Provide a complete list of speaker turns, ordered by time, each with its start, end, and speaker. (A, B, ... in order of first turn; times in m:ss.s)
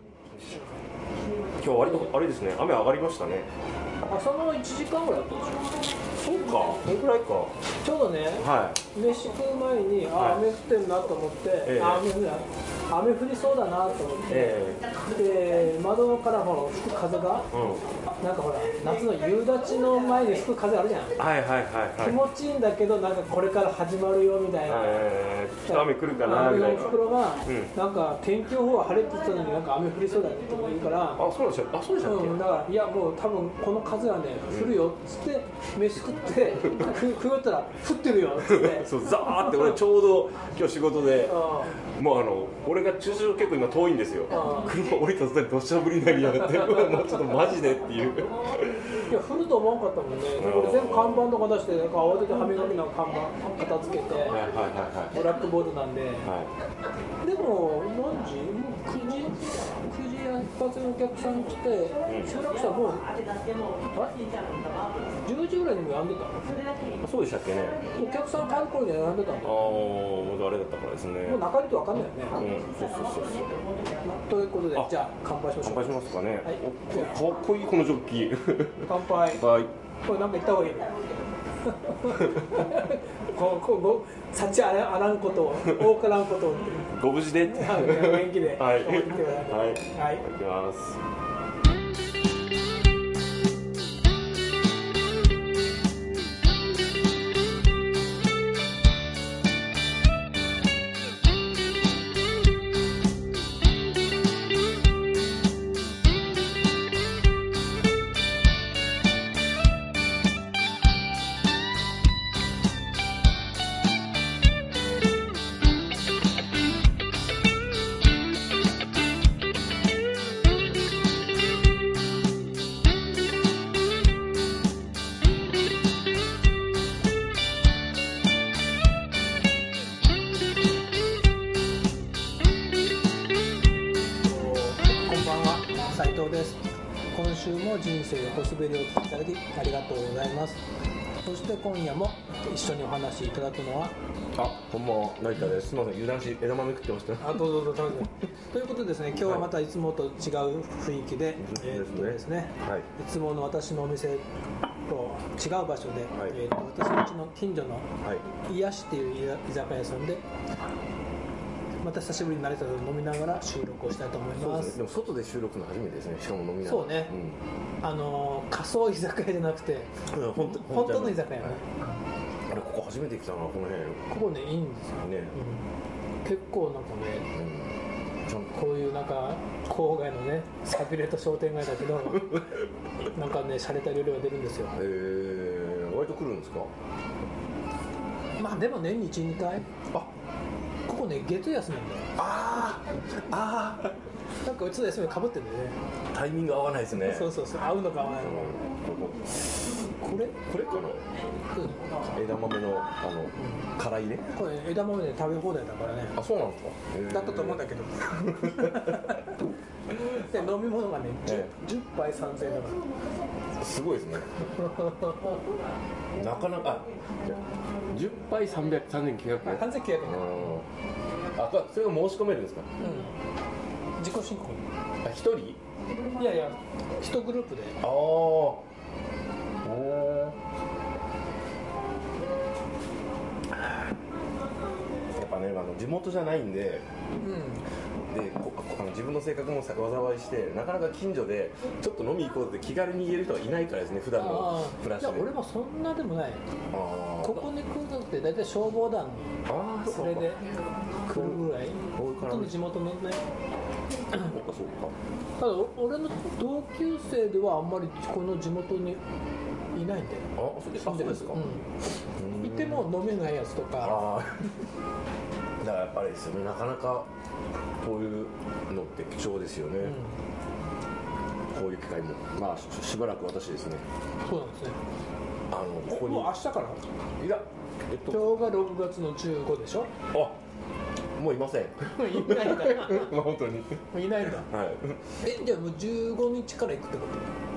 0:01.6-0:03.5 A
0:04.1-0:05.9 B
0:06.2-0:07.6 A
0:07.8-0:17.5 B
0:08.4-0:08.8 A
0:10.1-0:10.5 A
0:11.6-0:12.1 A
0:14.3-0:14.9 A
0:17.5-0:17.8 A
0:18.2-0:21.2 B
0:21.2-0:22.2 A
0:22.0-0:25.0 B
0:24.7-0:27.7 A
0:25.7-0:31.2 B
0:31.2-0:32.5 A
0:32.0-0:39.8 B
0:34.5-0:34.8 A
0:38.4-0:49.1 A
0:41.2-0:41.8 B
0:44.3-0:44.8 B
0:49.0-0:54.5 B
0:50.3-0:51.3 A
0:54.3-0:55.4 A
0:55.1-0:56.3 B
0:56.2-0:56.5 A
0:57.2-1:04.4 B
1:02.1-1:02.3 A
1:05.2-1:06.6 B
1:07.0-1:07.8 A
1:07.9-1:09.8 B
1:09.4-1:11.4 A
1:11.2-1:12.4 B
1:12.3-1:13.5 A
1:14.0-1:17.2 B
1:15.6-1:19.7 A
1:18.8-1:19.5 B
1:20.0-1:21.0 B
1:21.6-1:30.3 B
1:22.2-1:22.5 A
1:26.9-1:31.0 A
2:14.2-2:20.6 B
2:21.2-2:24.0 B
2:24.4-2:27.6 A
2:27.2-2:34.2 B
2:29.2-2:29.6 A
2:31.4-2:32.9 A
2:34.9-2:40.2 B
2:36.1-2:36.4 A
2:41.8-2:44.8 B
2:44.4-2:47.4 A
2:46.6-2:47.2 B
2:47.8-2:51.7 B
2:50.0-2:51.6 A
2:52.5-2:54.1 A
2:54.1-2:55.6 B
2:55.0-2:55.4 A
2:56.2-2:57.3 B
2:57.3-2:58.5 A
2:58.5-3:02.5 B
3:03.1-3:04.8 B
3:04.7-3:06.7 A
3:08.4-3:09.9 B
3:10.9-3:12.1 B
3:12.2-3:13.9 A
3:14.4-3:15.8 B
3:16.1-3:17.4 A
3:17.0-3:18.6 B
3:18.2-3:21.1 A
3:20.0-3:20.3 B
3:21.5-3:22.0 B
3:22.0-3:24.3 A
3:24.3-3:26.2 B
3:26.1-3:29.2 A
3:27.1-3:29.3 B
3:29.9-3:32.9 B
3:31.3-3:31.5 A
3:33.6-3:34.5 A
3:34.4-3:35.4 B
3:36.2-3:40.7 A
3:39.4-3:40.6 B
3:41.4-3:42.7 A
3:42.8-3:43.2 B
3:44.0-3:44.6 B
3:45.0-3:45.6 A
3:46.2-3:47.8 B
3:47.8-3:48.6 A
3:49.6-3:50.4 A
3:53.6-3:53.9 A
3:55.1-3:56.9 A
3:57.2-3:57.7 B
3:58.0-4:05.3 A
4:04.2-4:06.4 B
4:06.7-4:07.5 A
4:07.2-4:10.5 B
4:09.5-4:10.4 A
4:11.0-4:13.2 B
4:11.1-4:12.6 A
4:14.1-4:15.0 A
4:15.4-4:19.0 B
4:19.7-4:21.6 B
4:20.4-4:22.9 A
4:22.4-4:24.0 B
4:23.8-4:24.6 A
4:25.6-4:27.1 A
4:27.8-4:30.0 A
4:29.8-4:30.1 B
4:31.5-4:33.8 A
4:34.2-4:34.8 B
4:35.5-4:36.4 A
4:35.9-4:36.8 B
4:37.2-4:38.4 A
4:38.1-4:39.9 B
4:40.1-4:40.4 A
4:41.2-4:45.2 A
4:41.9-4:43.2 B
4:43.9-4:44.5 B
4:45.2-4:47.3 B